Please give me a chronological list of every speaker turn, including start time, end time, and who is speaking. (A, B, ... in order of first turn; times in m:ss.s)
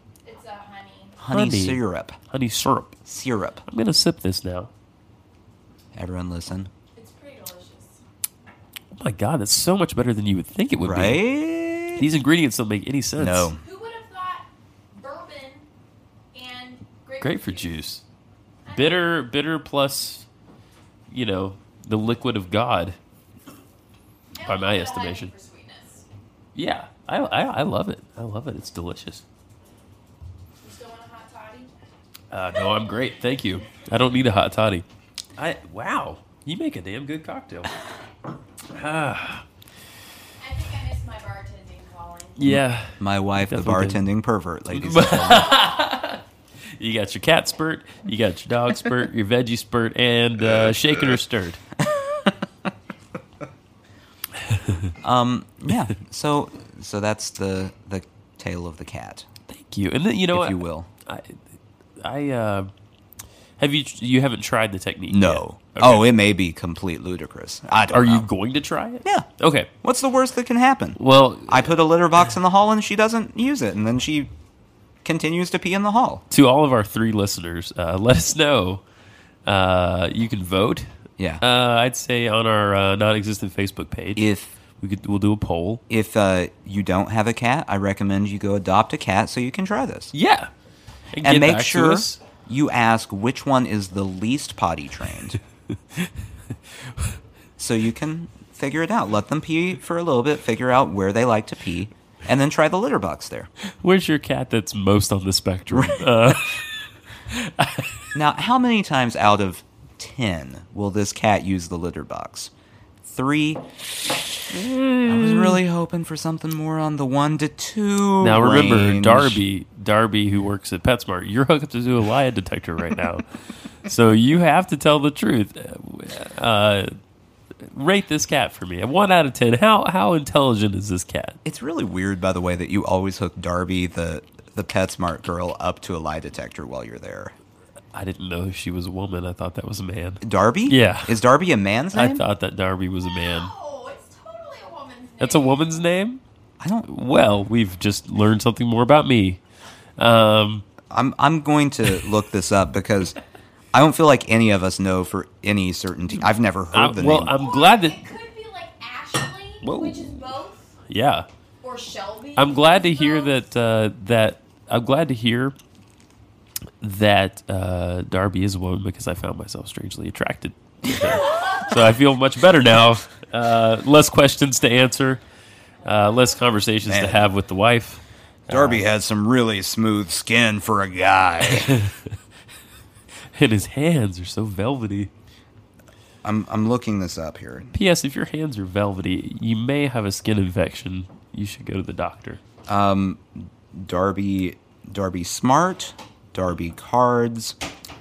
0:00.2-0:01.2 A
0:01.2-0:02.2 B
0:01.3-0:03.0 C
0:03.1-0:03.6 B
0:03.7-0:04.7 C
0:05.9-0:06.7 B
0:06.9-0:08.0 A
0:08.9-0:11.2 C
0:10.8-0:12.0 B
0:12.0-0:13.5 C
0:13.2-0:13.6 B
0:13.6-0:15.6 A
0:16.3-0:17.8 A
0:17.2-0:18.0 C
0:18.6-0:19.2 A
0:18.7-0:20.2 C
0:21.1-0:23.0 C
0:24.3-0:26.0 A
0:24.4-0:25.3 C
0:26.5-0:29.2 C
0:30.6-0:31.7 A
0:32.3-0:37.7 C
0:38.7-0:39.4 C
0:40.4-0:42.4 A
0:42.4-0:44.0 C
0:43.0-0:45.6 B
0:44.7-0:46.2 C
0:46.8-0:51.6 C
0:54.4-0:54.9 C
0:55.0-0:59.3 B
0:59.5-1:01.4 C
1:00.3-1:00.9 B
1:02.0-1:02.7 C
1:03.6-1:06.0 C
1:05.1-1:08.3 B
1:07.9-1:09.7 C
1:09.8-1:14.3 B
1:11.0-1:11.8 C
1:15.0-1:16.2 B
1:16.3-1:18.8 C
1:19.4-1:25.8 C
1:24.2-1:24.5 B
1:25.9-1:30.1 B
1:30.1-1:30.5 C
1:31.1-1:32.2 C
1:31.2-1:35.4 B
1:37.6-1:43.5 B
1:43.8-1:46.7 C
1:45.7-1:46.4 B
1:47.3-1:48.0 C
1:48.1-1:52.5 B
1:53.0-1:53.8 B
1:54.5-1:55.6 C
1:55.0-1:59.4 B
1:58.2-2:03.2 C
2:03.8-2:06.9 C
2:07.6-2:11.4 C
2:11.4-2:17.3 B
2:17.9-2:21.2 C
2:20.2-2:22.2 B
2:21.9-2:23.5 C
2:23.0-2:25.7 A
2:25.2-2:26.2 C
2:26.6-2:26.9 B
2:26.8-2:29.4 C
2:30.0-2:30.6 C
2:30.9-2:33.2 B
2:33.7-2:37.4 B
2:36.7-2:38.0 C
2:37.3-2:40.7 A
2:39.6-2:40.2 C
2:40.9-2:41.3 C
2:41.6-2:43.5 A
2:42.4-2:45.6 C
2:46.8-2:55.2 C
2:55.8-2:58.8 C
2:56.8-2:57.3 B
2:58.5-3:01.8 B
3:01.4-3:02.2 C
3:03.3-3:05.1 C
3:06.2-3:07.7 B
3:07.7-3:12.4 C
3:12.7-3:17.6 B